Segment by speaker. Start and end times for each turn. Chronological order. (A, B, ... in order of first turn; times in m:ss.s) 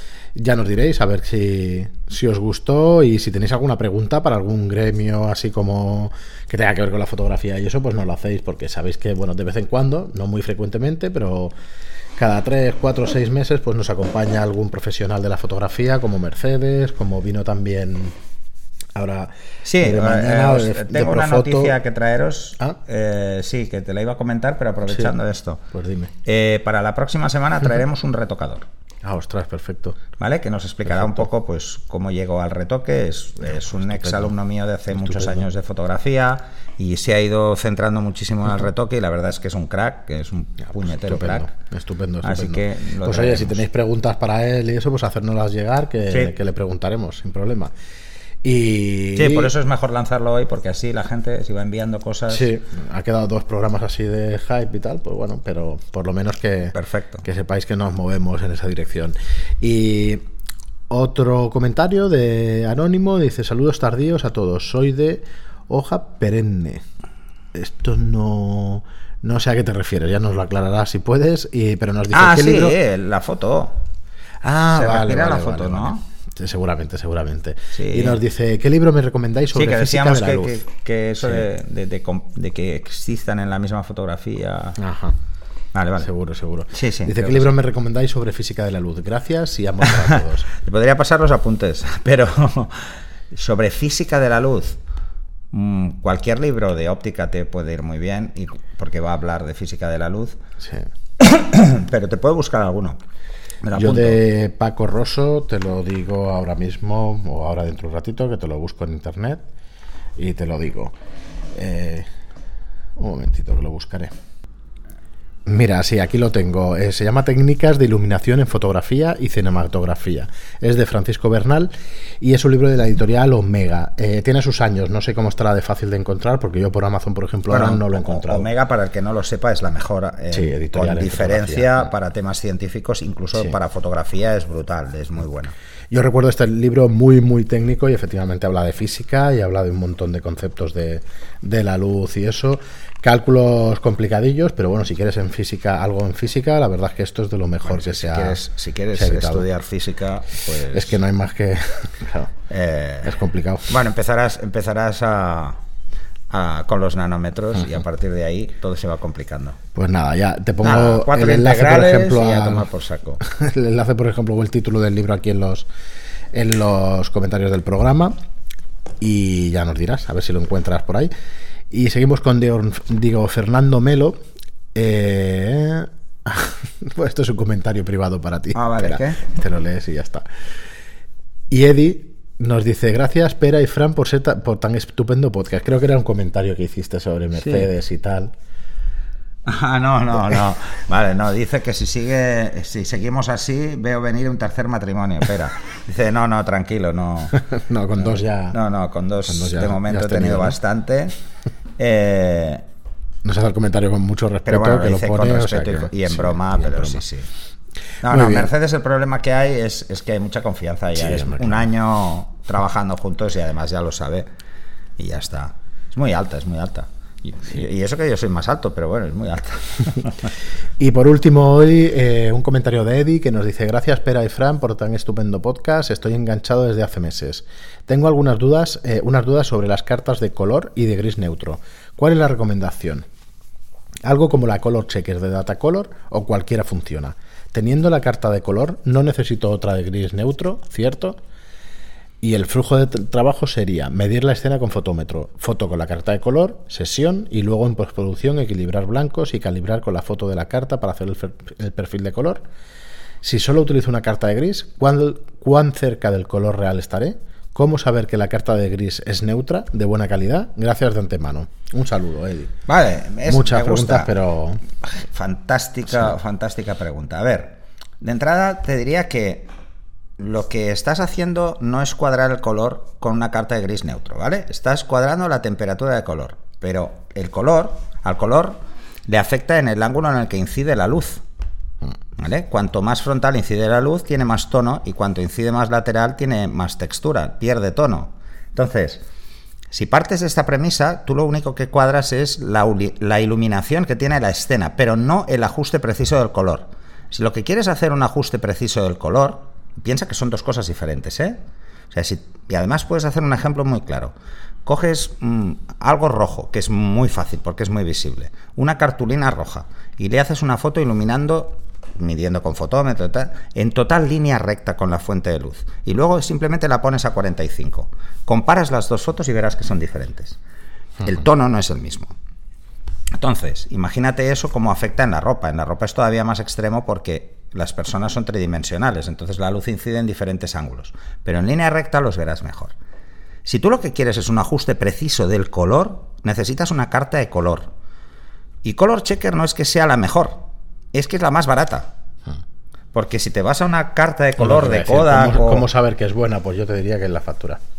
0:00.4-0:11.5 A
0:12.2-0:18.2 A
0:19.0-0:21.8 A
0:19.6-0:25.6 B
0:24.8-0:25.1 A
0:25.7-0:26.1 A
0:26.2-0:28.7 B
0:29.0-0:30.0 A
0:30.2-0:41.5 B
0:34.0-0:34.3 A
0:35.1-0:35.4 A
0:40.8-0:47.7 A
0:42.2-0:43.6 B
0:48.4-0:49.5 A
0:49.2-0:52.4 B
0:52.3-1:00.2 A
0:56.8-0:57.2 B
1:00.9-1:06.8 A
1:07.5-1:12.8 A
1:12.1-1:13.8 B
1:14.4-1:20.6 A
1:14.7-1:16.0 B
1:17.7-1:18.2 B
1:19.5-1:24.8 B
1:24.8-1:25.2 A
1:25.7-1:26.1 B
1:26.0-1:30.5 A
1:26.7-1:27.5 B
1:29.8-1:34.8 B
1:35.5-1:40.4 B
1:40.6-1:40.9 A
1:41.2-1:43.0 B
1:43.6-1:44.2 B
1:43.8-1:49.4 A
1:50.2-1:50.9 A
1:51.6-1:52.1 A
1:53.0-1:54.1 A
1:55.5-2:08.5 A
2:07.5-2:15.5 B
2:10.3-2:11.8 A
2:15.9-2:28.4 A
2:27.6-2:31.0 B
2:28.9-2:29.5 A
2:30.7-2:32.3 A
2:32.5-2:35.6 B
2:33.0-2:33.8 A
2:36.3-2:39.6 B
2:39.8-2:42.7 A
2:40.6-2:43.2 B
2:43.2-2:45.7 A
2:46.3-2:48.1 A
2:49.0-2:51.1 A
2:51.7-2:54.2 A
2:54.8-3:00.2 A
2:58.6-2:59.2 B
3:01.5-3:08.3 A
3:07.4-3:07.7 B
3:09.4-3:17.4 B
3:17.3-3:18.6 A
3:18.0-3:21.2 B
3:19.3-3:20.6 A
3:21.8-3:22.6 B
3:23.2-3:27.0 A
3:24.5-3:27.3 B
3:28.0-3:34.3 B
3:28.0-3:28.5 A
3:31.0-3:31.6 A
3:35.0-3:40.3 B
3:40.8-3:53.1 A
3:54.0-4:01.2 A
4:02.2-4:12.4 A
4:13.2-4:22.6 A
4:22.7-4:24.1 B
4:23.3-4:24.6 A
4:24.8-4:29.5 B
4:30.2-4:41.2 B
4:42.2-4:49.0 B
4:49.7-5:01.4 B
5:01.9-5:04.1 B
5:04.6-5:20.4 B
5:21.0-5:22.1 B
5:23.1-5:32.8 B
5:33.4-5:37.7 B
5:38.6-5:41.9 B
5:42.9-5:45.7 B
5:44.4-5:47.6 A